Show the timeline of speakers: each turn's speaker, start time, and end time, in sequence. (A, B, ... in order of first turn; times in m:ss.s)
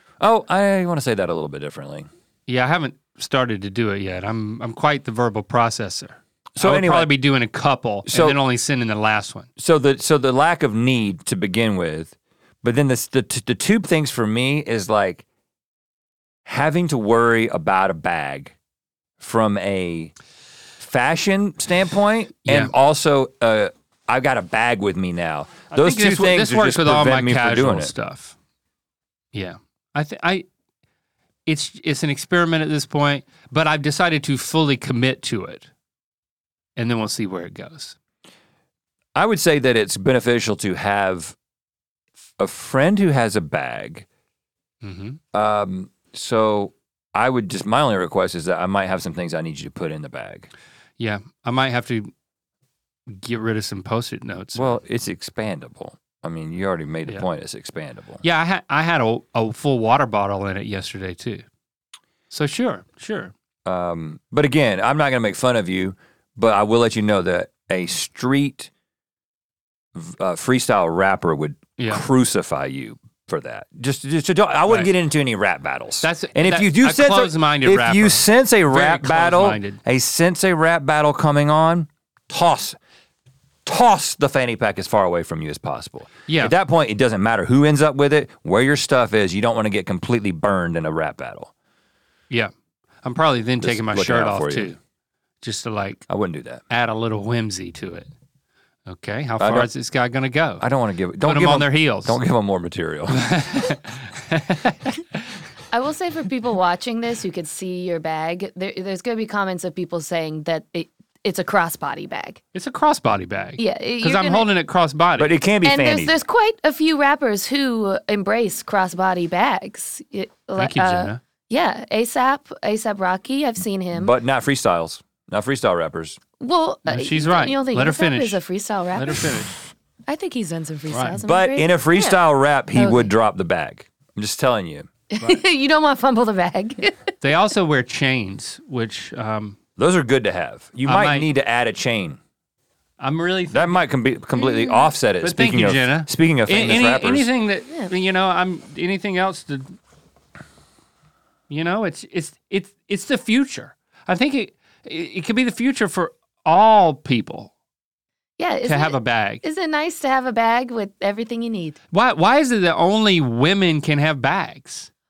0:00.2-0:02.1 A
0:02.5-0:09.5 B
0:06.6-0:07.1 A
0:08.1-0:08.4 A
0:09.6-0:15.2 A
0:16.4-0:18.5 A
0:19.2-0:20.1 A
0:20.8-0:27.9 A
0:22.4-0:22.7 B
0:25.7-0:28.3 B
0:29.3-0:30.4 B
0:31.4-0:35.7 B
0:36.8-0:38.0 B
0:39.1-0:41.3 A
0:42.4-0:44.0 A
0:44.8-0:45.2 B
0:45.3-0:50.5 A
0:51.0-0:52.1 B
0:53.1-0:54.8 B
0:54.5-0:58.2 A
0:58.2-1:01.4 B
1:02.3-1:03.3 B
1:03.6-1:08.7 A
1:09.9-1:22.8 A
1:11.8-1:12.0 B
1:16.0-1:19.8 B
1:23.6-1:31.5 A
1:26.3-1:26.5 B
1:33.0-1:34.8 B
1:33.6-1:34.7 A
1:35.4-1:36.1 B
1:36.1-1:36.6 A
1:36.7-1:38.1 B
1:38.9-1:40.6 B
1:39.4-1:39.7 A
1:40.6-1:43.2 A
1:41.2-1:42.2 B
1:43.1-1:44.9 B
1:45.7-1:52.4 C
1:52.5-1:55.3 B
1:53.6-1:54.5 C
1:55.2-1:56.2 A
1:55.6-2:04.1 C
2:00.6-2:01.2 B
2:03.9-2:06.2 A
2:06.4-2:09.4 C
2:06.8-2:08.4 B
2:08.9-2:09.5 B
2:10.1-2:12.2 C
2:10.9-2:11.2 B
2:11.2-2:14.9 A
2:12.7-2:13.1 C
2:15.1-2:17.1 C
2:17.2-2:19.6 B
2:19.8-2:22.2 A
2:20.9-2:21.3 B
2:23.0-2:23.8 B
2:23.5-2:27.3 A
2:24.4-2:24.8 C
2:25.2-2:29.8 B
2:31.5-2:37.5 B
2:38.4-2:41.8 C
2:38.6-2:39.4 B
2:41.9-2:44.9 B